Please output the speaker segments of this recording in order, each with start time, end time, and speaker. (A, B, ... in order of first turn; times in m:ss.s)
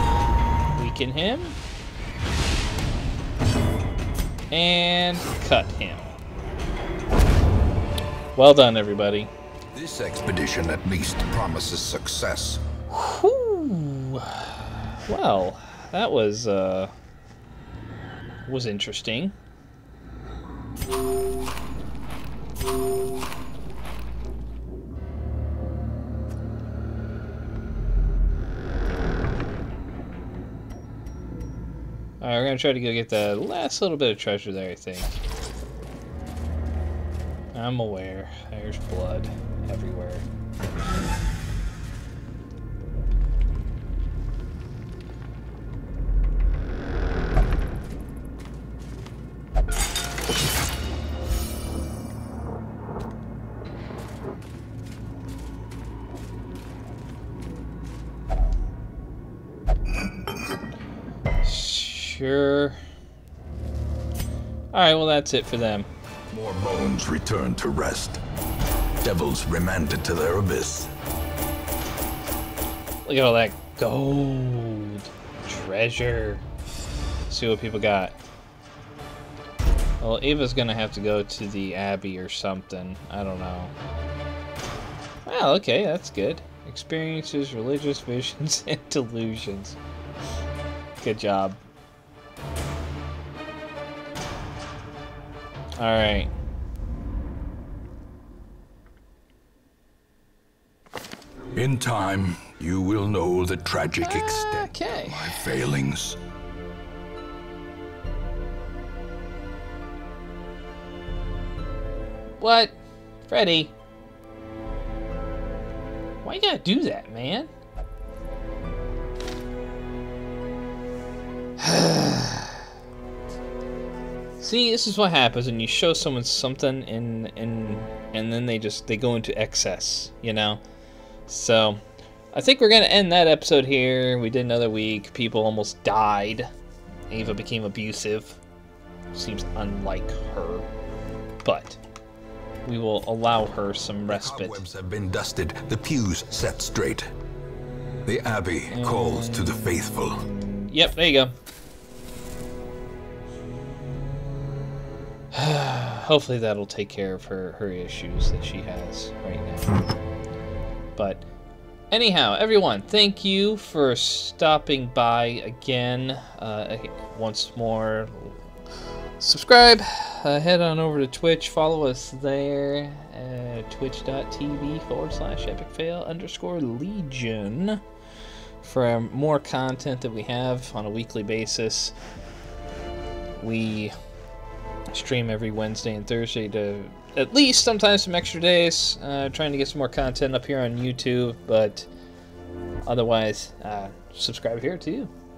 0:00.8-0:01.6 A
0:04.5-0:06.2 A
0:08.4-0:09.3 A
0:09.7-0:12.6 B
0:12.9-0:16.9 A
0:18.5-0:19.4 A
0:32.2-0:35.2 A
0:37.5-0:40.2 A
1:01.4-1:02.8 A
1:04.7-1:05.9 A
1:06.3-1:08.2 B
1:09.0-1:10.9 B
1:13.0-1:16.4 A
1:17.3-1:18.2 A
1:20.0-1:23.7 A
1:25.3-1:29.8 A
1:31.0-1:31.6 A
1:35.8-1:36.3 A
1:41.6-1:46.2 B
1:44.0-1:45.5 A
1:52.4-1:52.8 A
1:53.3-1:53.7 A
1:56.2-1:57.5 A
2:01.6-2:02.6 A
2:04.4-2:10.6 A
2:11.3-2:11.8 A
2:12.3-2:16.5 A
2:17.1-2:18.4 A
2:19.1-2:20.7 A
2:21.4-2:21.8 A
2:22.6-2:24.6 A
2:24.1-2:27.1 B
2:28.1-2:30.3 B
2:28.7-2:31.3 A
2:35.3-2:39.8 A
2:41.0-2:41.2 A
2:41.9-2:48.4 A
2:49.2-2:57.8 A
2:58.6-3:01.9 A
3:03.4-3:04.0 A
3:04.9-3:11.9 A
3:12.9-3:15.1 A